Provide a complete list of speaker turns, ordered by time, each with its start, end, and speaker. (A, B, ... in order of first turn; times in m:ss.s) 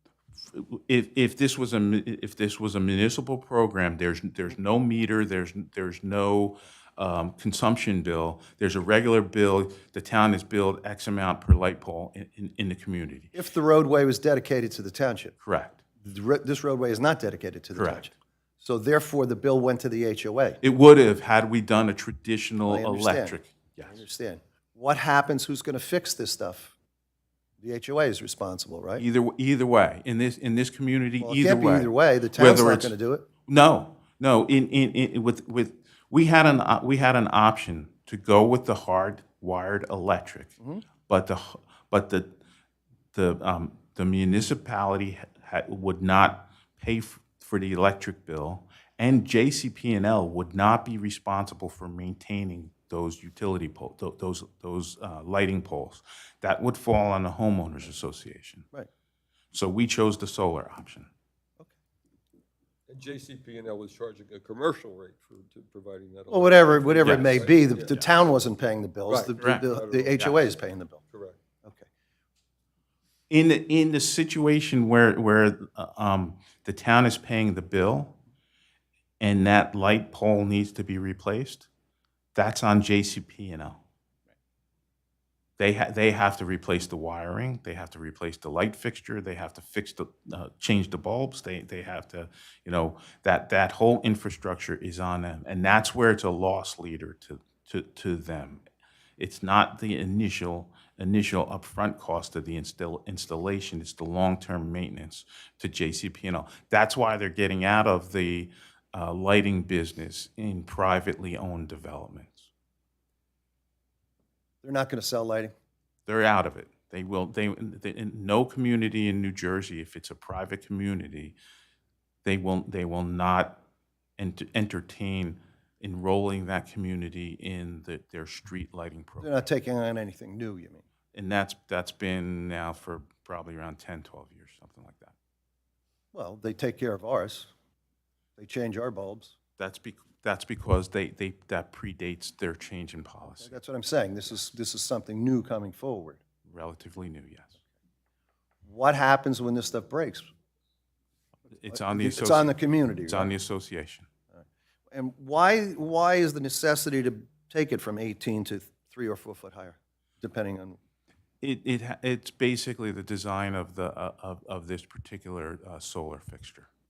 0:00.5-0:13.3 A
0:13.3-0:15.3 B
0:15.4-0:15.8 A
0:16.0-0:20.6 B
0:17.7-0:18.1 A
0:20.6-0:24.0 A
0:22.6-0:26.7 B
0:27.6-0:29.0 B
0:29.0-0:32.9 A
0:31.2-0:33.3 B
0:33.4-0:40.5 A
0:41.1-0:42.3 A
0:43.1-0:58.7 A
0:59.5-1:01.1 A
1:02.9-1:08.0 C
1:06.3-1:11.0 B
1:07.0-1:07.3 A
1:09.1-1:10.4 C
1:09.4-1:09.7 A
1:11.1-1:11.4 C
1:13.3-1:18.2 A
1:19.2-1:21.7 A
1:22.4-1:23.8 A
1:25.6-1:38.6 A
1:39.2-1:52.5 A
1:54.6-1:55.5 B
1:56.1-2:01.4 A
2:02.2-2:03.6 A
2:04.2-2:09.4 A
2:09.2-2:10.8 B
2:11.1-2:15.1 A
2:16.1-2:17.5 B
2:18.4-2:19.3 B
2:19.6-2:23.6 A
2:23.4-2:26.2 B
2:26.4-2:27.5 A
2:28.7-2:30.3 B
2:31.5-2:32.5 A
2:31.7-2:33.3 B
2:33.1-2:34.1 A
2:34.3-2:40.8 B
2:41.4-2:46.7 A